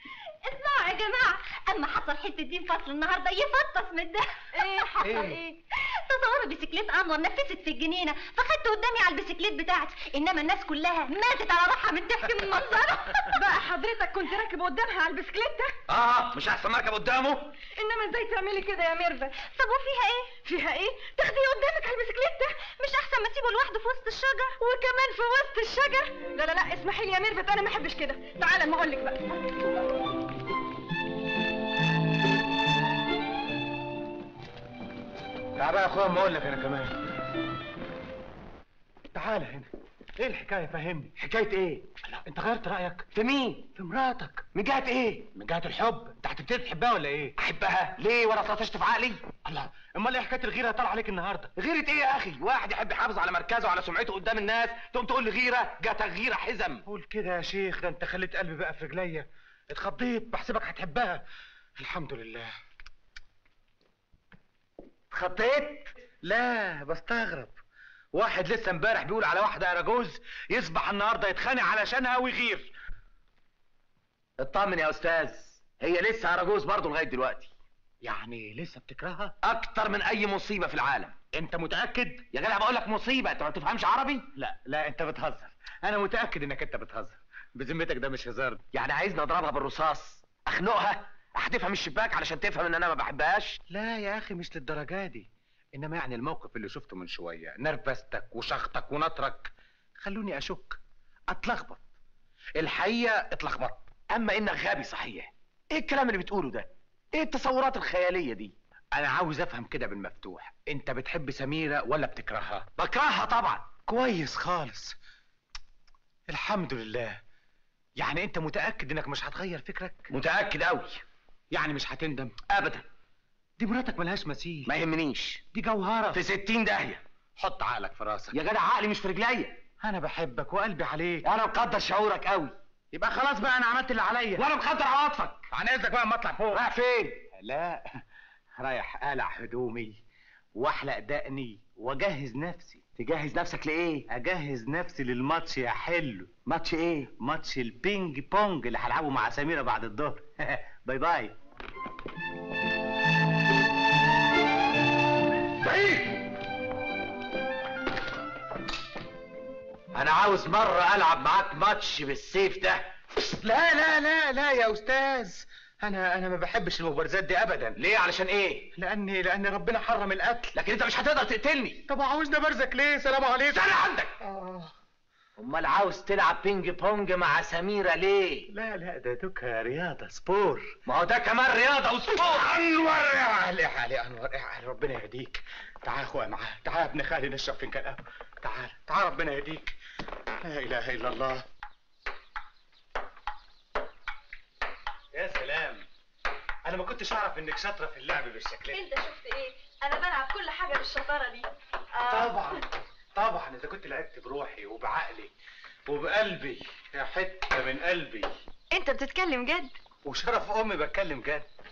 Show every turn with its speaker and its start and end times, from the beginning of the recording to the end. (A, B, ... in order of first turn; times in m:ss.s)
0:00.4-0:13.3 A
0:04.5-0:05.6 B
0:13.0-0:15.8 B
0:15.9-0:17.5 C
0:17.8-0:19.4 B
0:19.4-0:20.3 A
0:20.4-0:22.6 B
0:22.6-0:24.5 A
0:24.6-0:29.4 B
0:35.6-0:37.0 D
0:39.1-0:41.1 D
0:41.2-0:41.9 C
0:42.0-0:43.1 D
0:43.1-0:43.7 C
0:43.7-0:44.5 D
0:44.5-0:45.3 C
0:45.3-0:47.3 D
0:47.4-0:49.3 C
0:49.4-0:51.5 D
0:51.6-0:56.8 C
0:56.9-1:01.2 D
1:01.8-1:02.5 D
1:05.1-1:05.9 C
1:06.2-1:07.5 D
1:08.1-1:12.7 D
1:14.4-1:17.5 C
1:18.0-1:19.3 D
1:19.4-1:21.2 C
1:21.3-1:22.2 D
1:22.3-1:24.3 C
1:24.4-1:28.6 D
1:28.7-1:33.6 C
1:33.7-1:41.8 D
1:42.6-1:43.9 D
1:44.1-1:48.5 C
1:48.9-1:52.6 D
1:52.8-1:53.8 C
1:53.8-1:54.9 D
1:56.3-1:57.2 D
1:58.0-2:00.1 D
2:00.1-2:01.0 C
2:01.5-2:02.3 D
2:02.5-2:02.8 C
2:03.6-2:04.7 D
2:04.7-2:05.4 C
2:05.5-2:06.2 D
2:06.1-2:07.0 C
2:07.4-2:08.3 D
2:08.3-2:09.6 C
2:09.8-2:11.2 D
2:11.2-2:12.5 C
2:12.9-2:14.4 D
2:14.4-2:15.5 C
2:15.5-2:16.6 D
2:16.5-2:17.2 C
2:17.3-2:18.0 D
2:18.6-2:20.0 D
2:20.6-2:22.8 D
2:23.0-2:24.0 C
2:24.1-2:26.3 D
2:26.4-2:27.1 C
2:27.2-2:31.3 D
2:35.6-2:36.1 C
2:39.9-2:42.8 C
2:43.4-2:47.8 D
2:47.8-2:48.7 C
2:48.7-2:50.5 D
2:50.5-2:51.8 C
2:51.9-2:54.7 D
2:53.5-2:54.2 C
2:55.4-2:58.5 C
2:58.5-3:00.7 D
3:00.8-3:02.5 C
3:02.2-3:09.7 D
3:10.4-3:11.4 D
3:15.1-3:15.8 D
3:16.6-3:18.8 D
3:18.7-3:22.6 B
3:22.1-3:25.3 D
3:25.9-3:28.3 D
3:28.7-3:29.7 B
3:30.0-3:31.4 D